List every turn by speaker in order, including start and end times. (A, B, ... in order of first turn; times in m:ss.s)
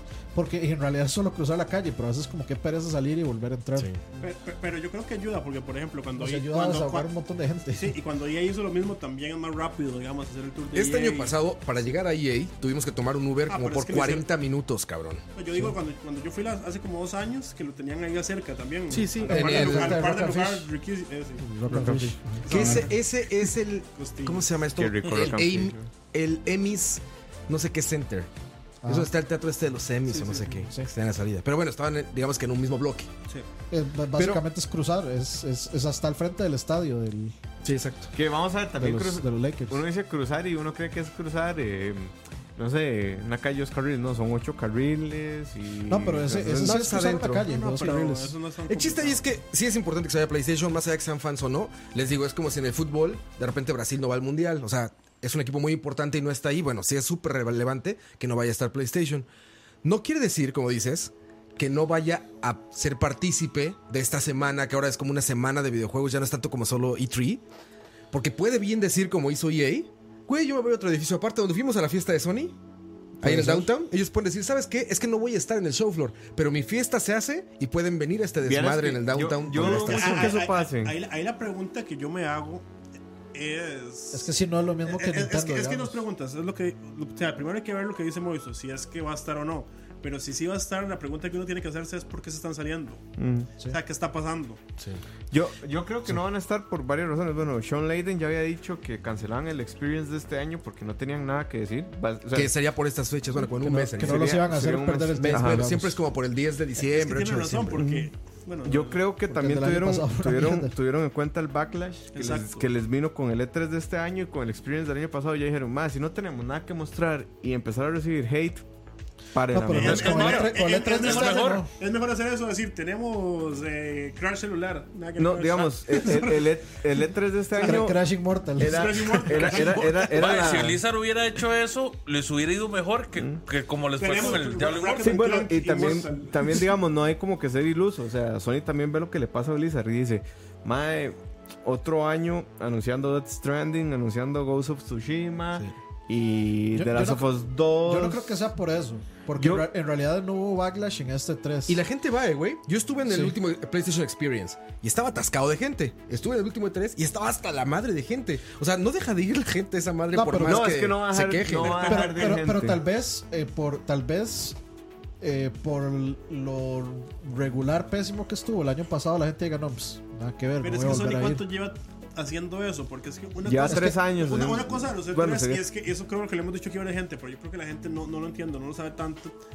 0:00.3-0:03.9 A
0:04.2-0:07.1 B
0:06.2-0:08.0 A
0:07.7-0:11.3 B
0:10.7-0:15.2 C
0:13.5-0:14.2 B
0:15.3-0:21.5 B
0:18.9-0:20.0 C
0:19.2-0:20.7 A
0:21.4-0:22.9 A
0:21.7-0:22.2 D
0:22.4-0:22.9 B
0:22.5-0:28.3 C
0:24.0-0:24.5 B
0:24.7-0:25.9 D
0:28.8-0:29.1 A
0:28.9-0:33.1 C
0:30.1-0:30.5 B
0:30.5-0:30.9 A
0:33.7-0:37.4 A
0:34.2-0:34.4 C
0:37.6-0:38.1 C
0:38.1-0:46.8 D
0:38.8-0:39.8 A
0:45.9-0:48.4 A
0:46.5-0:47.4 C
0:47.4-0:49.2 B
0:48.7-0:59.3 C
0:59.8-1:07.4 C
1:08.1-1:12.6 C
1:13.2-1:20.4 C
1:13.2-1:13.6 D
1:18.4-1:21.0 D
1:19.5-1:22.7 B
1:23.3-1:24.3 B
1:24.1-1:26.0 A
1:24.8-1:33.0 B
1:33.2-1:33.5 D
1:33.6-1:34.6 B
1:35.3-1:42.5 D
1:42.3-1:44.4 C
1:43.6-1:46.0 A
1:43.9-1:45.7 D
1:45.2-1:47.8 C
1:46.8-1:49.0 B
1:47.8-1:48.1 D
1:48.6-1:58.6 D
1:49.3-1:50.8 A
1:52.1-1:52.7 B
1:59.3-2:00.4 D
1:59.5-2:01.7 A
1:59.7-2:06.5 B
2:00.0-2:01.6 E
2:05.2-2:08.0 D
2:07.6-2:09.3 A
2:08.6-2:10.8 D
2:08.6-2:10.5 B
2:09.7-2:15.2 E
2:14.0-2:16.7 B
2:15.0-2:28.3 D
2:26.7-2:27.3 A
2:27.8-2:31.8 A
2:29.4-2:29.7 D
2:31.7-2:42.0 C
2:33.1-2:33.3 A
2:40.1-2:40.8 A
2:40.4-2:42.8 D
2:41.6-2:42.3 B
2:41.7-2:44.6 A
2:45.2-2:51.4 A
2:50.6-2:59.3 B
2:53.4-2:55.6 D
2:53.7-2:54.0 A